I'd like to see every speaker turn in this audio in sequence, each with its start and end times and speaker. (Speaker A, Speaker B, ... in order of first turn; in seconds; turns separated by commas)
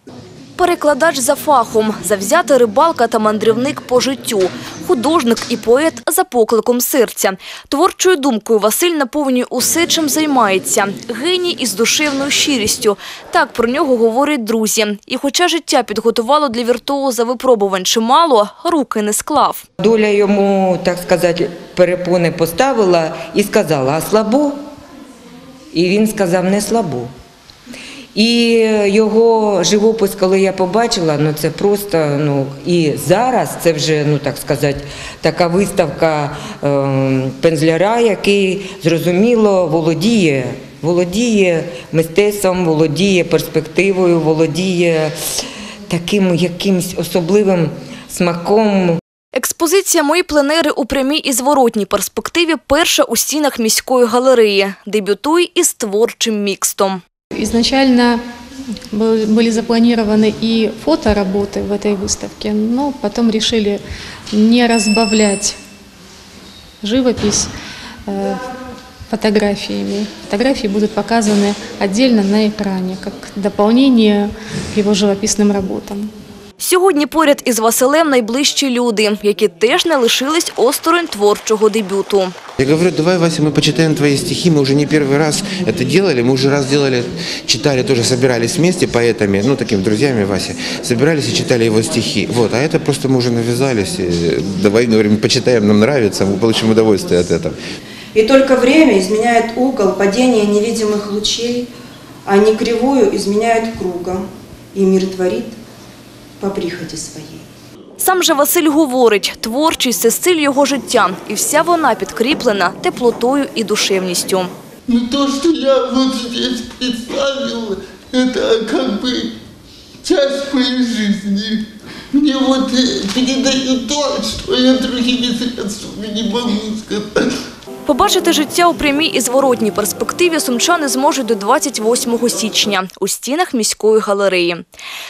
Speaker A: 0.6-19.6, Speaker B: 19.8-24.6, Speaker B: 25.7-27.1, Speaker B: 28.1-45.1, Speaker B: 45.9-49.0, Speaker A: 49.3-57.0, Speaker C: 57.3-58.2, Speaker C: 58.9-63.8, Speaker C: 64.3-65.6, Speaker C: 66.8-67.5, Speaker C: 68.1-68.4, Speaker C: 69.1-76.1, Speaker A: 76.6-82.3, Speaker D: 82.6-97.5, Speaker E: 98.1-101.7, Speaker E: 102.2-105.6, Speaker E: 106.4-107.5, Speaker A: 108.0-114.5, Speaker F: 114.9-119.1, Speaker F: 120.0-121.4, Speaker F: 122.2-127.0, Speaker A: 127.8-134.6